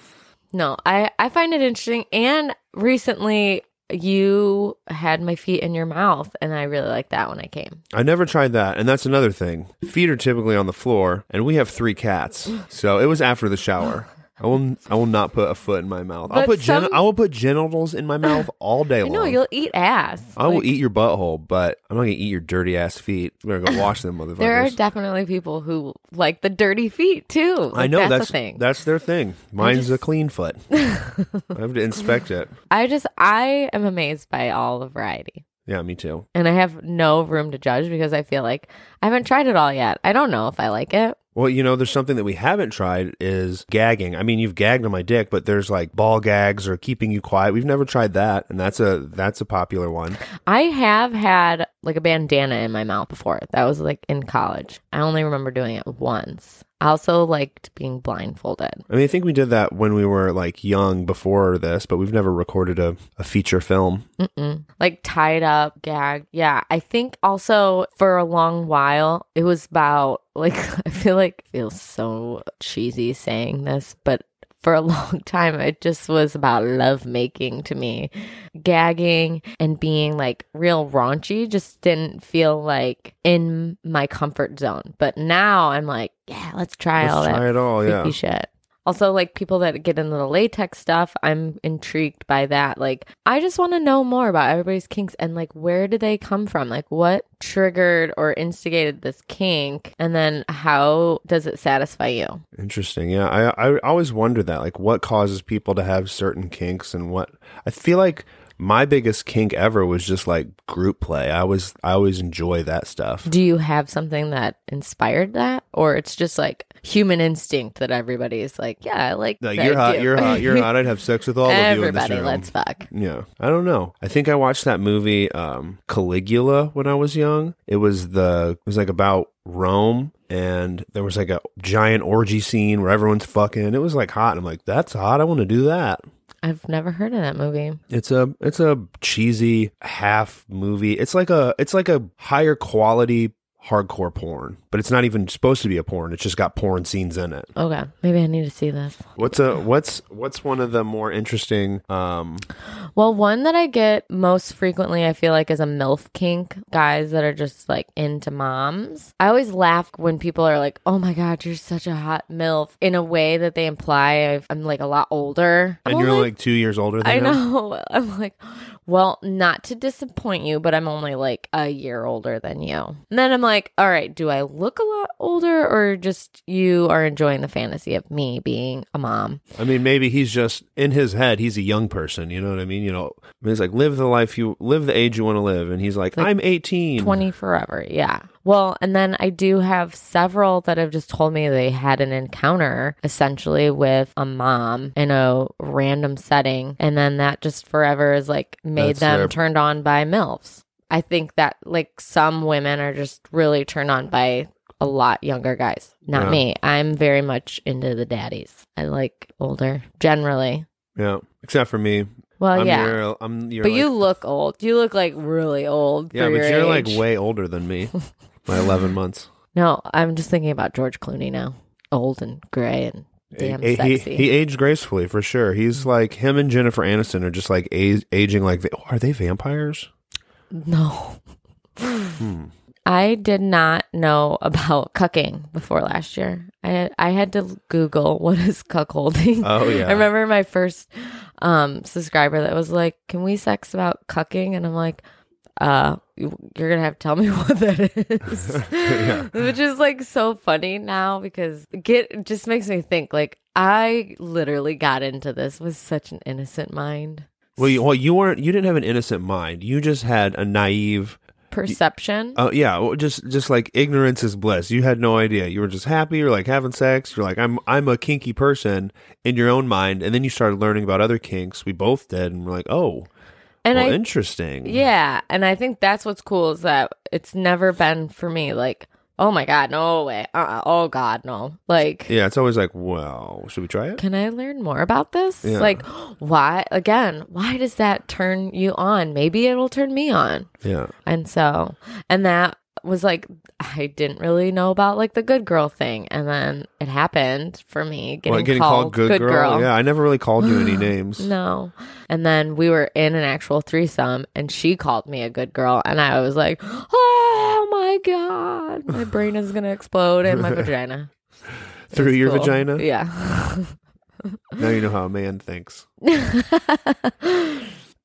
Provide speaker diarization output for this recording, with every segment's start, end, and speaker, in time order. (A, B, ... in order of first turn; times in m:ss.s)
0:00.5-0:07.8 A
0:07.9-0:19.4 B
0:16.3-0:17.0 A
0:19.0-0:20.7 A
0:20.4-0:24.8 B
0:24.4-0:28.6 A
0:27.7-0:30.6 B
0:29.6-0:30.0 A
0:30.7-0:31.5 A
0:31.5-0:32.5 B
0:32.7-0:35.4 A
0:35.7-0:36.3 B
0:36.3-0:41.2 A
0:41.4-0:50.2 B
0:50.5-0:58.8 A
0:58.9-1:04.1 B
1:04.2-1:42.4 A
1:27.0-1:28.2 B
1:42.6-1:53.3 B
1:53.3-2:00.7 A
1:59.4-2:16.0 B
2:01.4-2:02.9 A
2:16.4-2:17.8 A
2:17.9-2:27.5 B
2:27.6-2:29.1 A
2:29.2-2:32.5 B
2:33.0-2:46.3 A
2:45.9-2:47.4 B
2:47.0-2:59.4 A
2:59.6-3:07.2 B
3:07.0-3:30.7 A
3:18.8-3:19.4 B
3:26.1-3:26.4 B
3:31.0-3:34.0 B
3:32.4-3:33.0 A
3:33.6-3:37.0 A
3:36.1-3:37.9 B
3:38.4-3:39.3 B
3:39.5-3:44.3 A
3:43.3-3:49.9 B
3:50.5-3:51.2 A
3:51.8-3:52.2 A
3:52.2-3:52.5 B
3:52.9-4:05.0 A
3:59.4-4:00.1 B
4:05.6-4:17.6 A
4:08.5-4:09.3 B
4:17.6-4:21.8 B
4:21.5-4:22.4 A
4:22.4-4:33.1 B
4:33.6-4:34.0 A
4:33.7-4:34.8 B
4:34.6-4:42.1 A
4:42.1-4:44.0 B
4:44.0-4:50.5 A
4:45.4-4:45.8 B
4:50.6-4:50.9 B
4:51.1-4:59.7 A
4:58.3-5:01.3 B
5:00.4-5:11.1 A
5:10.3-5:10.6 B
5:11.9-5:12.8 B
5:11.9-5:13.8 A
5:14.6-5:15.9 B
5:16.0-5:17.7 A